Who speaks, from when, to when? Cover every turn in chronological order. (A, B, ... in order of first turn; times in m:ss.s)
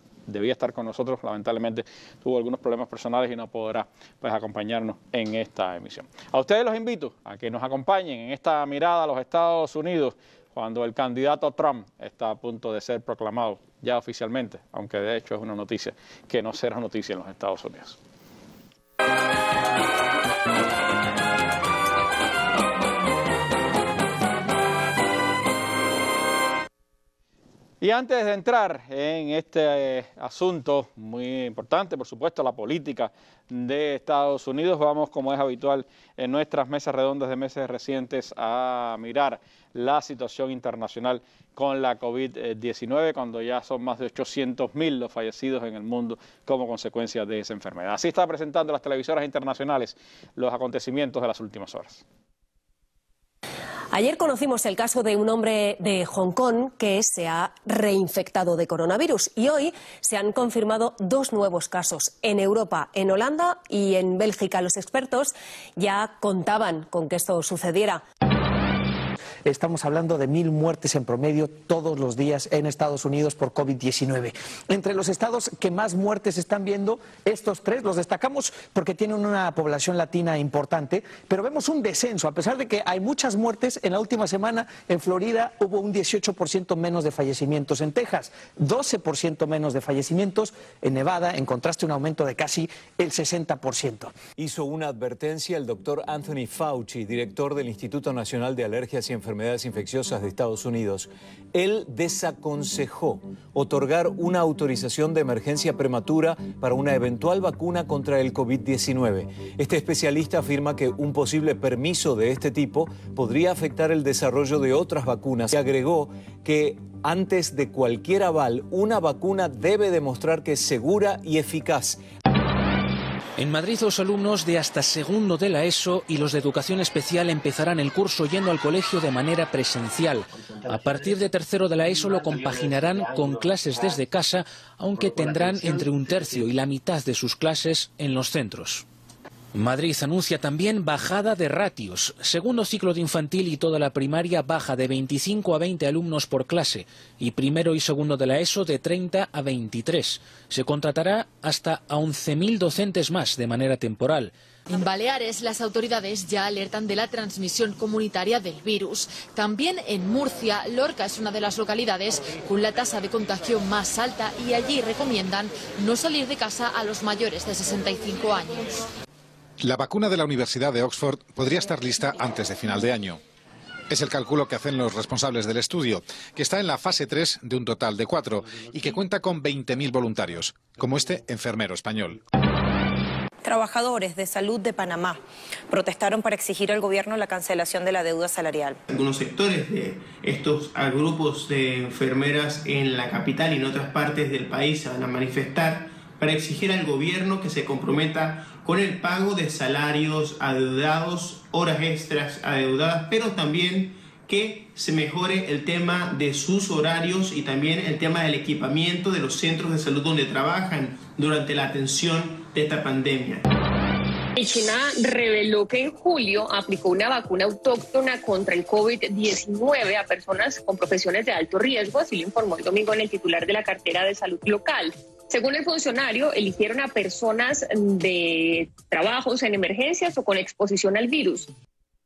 0:00.3-0:18.0 A
0:27.8-0:52.0 A
0:53.9-1:08.0 B
1:09.4-1:34.2 C
1:34.4-2:02.0 D
2:03.4-2:18.8 E
2:19.5-2:34.3 E
2:34.7-2:48.7 F
2:49.6-2:53.2 G
2:53.9-3:02.2 G
3:03.4-3:08.8 H
3:08.9-3:33.4 I
3:34.4-3:51.5 J